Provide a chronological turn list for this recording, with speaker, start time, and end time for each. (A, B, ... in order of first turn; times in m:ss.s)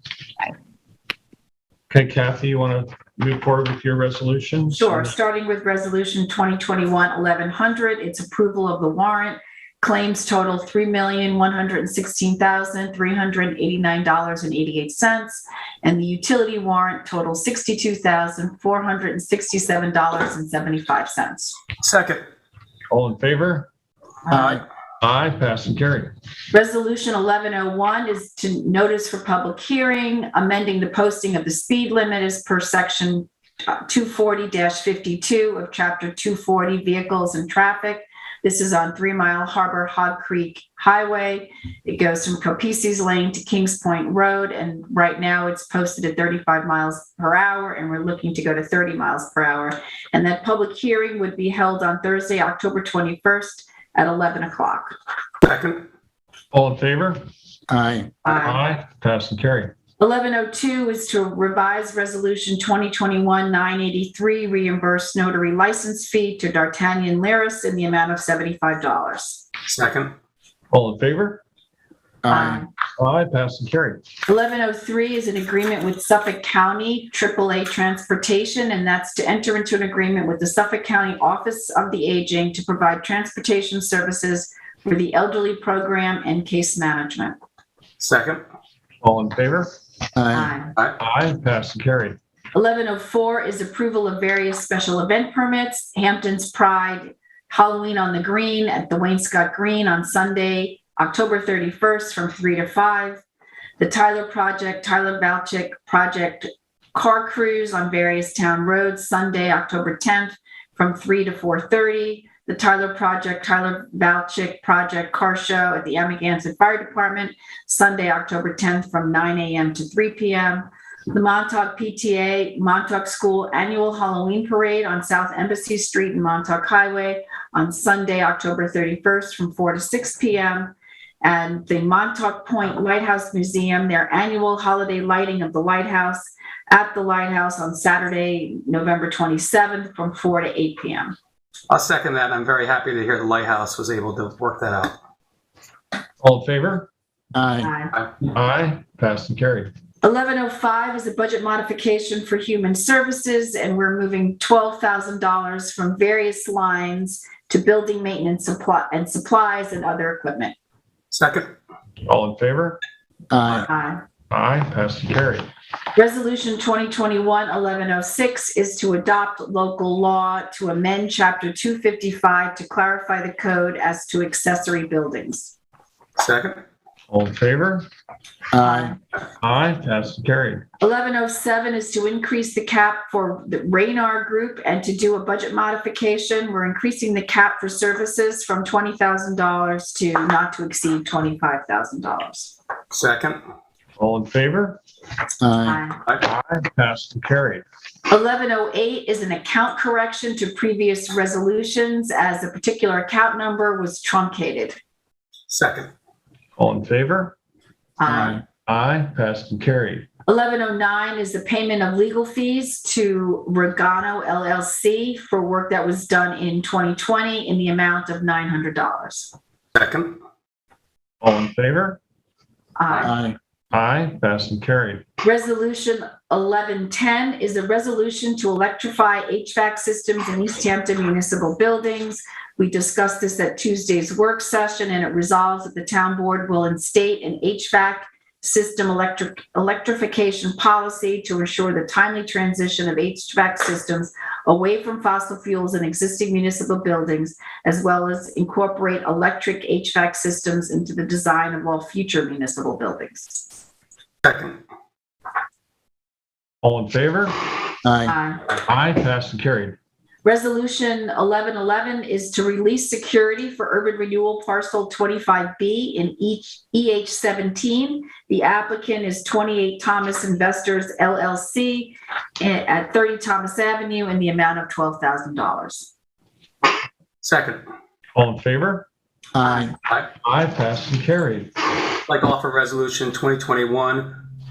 0:01.9-0:05.1 A
0:04.7-0:21.6 B
0:21.8-0:22.3 C
0:22.9-0:23.7 A
0:24.3-0:24.6 B
0:24.3-0:24.6 D
0:25.0-0:26.1 A
0:26.5-0:55.0 B
0:55.4-0:55.8 C
0:56.5-0:57.2 A
0:57.7-0:58.1 D
0:58.2-0:58.6 B
0:58.2-0:59.7 A
1:00.0-1:09.4 B
1:09.6-1:10.1 C
1:10.7-1:11.4 A
1:12.2-1:12.6 D
1:12.3-1:12.7 B
1:13.0-1:14.0 A
1:14.3-1:27.4 B
1:28.0-1:28.4 C
1:29.0-1:29.7 A
1:30.1-1:30.5 D
1:30.3-1:30.7 B
1:31.0-1:32.2 A
1:32.5-1:43.2 B
1:43.8-2:21.2 B
2:21.7-2:25.0 C
2:26.2-2:26.9 A
2:27.3-2:27.7 D
2:27.6-2:27.9 B
2:28.2-2:29.7 A
2:30.0-2:40.5 B
2:41.1-2:41.5 C
2:42.0-2:42.8 A
2:43.3-2:43.7 D
2:43.7-2:44.0 B
2:44.3-2:45.5 A
2:46.0-2:55.5 B
2:56.2-2:56.6 C
2:57.1-2:57.8 A
2:58.5-2:58.9 D
2:58.6-2:59.0 B
2:59.4-3:00.6 A
3:00.8-3:12.5 B
3:12.9-3:13.4 C
3:14.0-3:14.8 A
3:15.4-3:15.8 D
3:15.6-3:16.0 B
3:16.2-3:17.6 A
3:18.1-3:24.8 B
3:25.5-3:25.9 C
3:26.6-3:27.3 A
3:28.0-3:28.4 B
3:28.1-3:28.4 D
3:28.6-3:30.1 A
3:30.3-3:39.3 B
3:39.7-3:40.2 C
3:41.2-3:42.0 A
3:42.8-3:43.1 B
3:43.0-3:43.4 D
3:43.7-3:45.0 A
3:45.2-4:13.5 B
4:14.2-4:14.6 C
4:16.6-4:17.3 A
4:17.8-4:18.1 D
4:18.0-4:18.4 B
4:18.6-4:19.8 A
4:20.2-4:35.9 B
4:37.2-4:37.6 C
4:38.1-4:38.9 A
4:39.3-4:39.7 D
4:40.2-4:41.5 A
4:42.1-4:44.2 C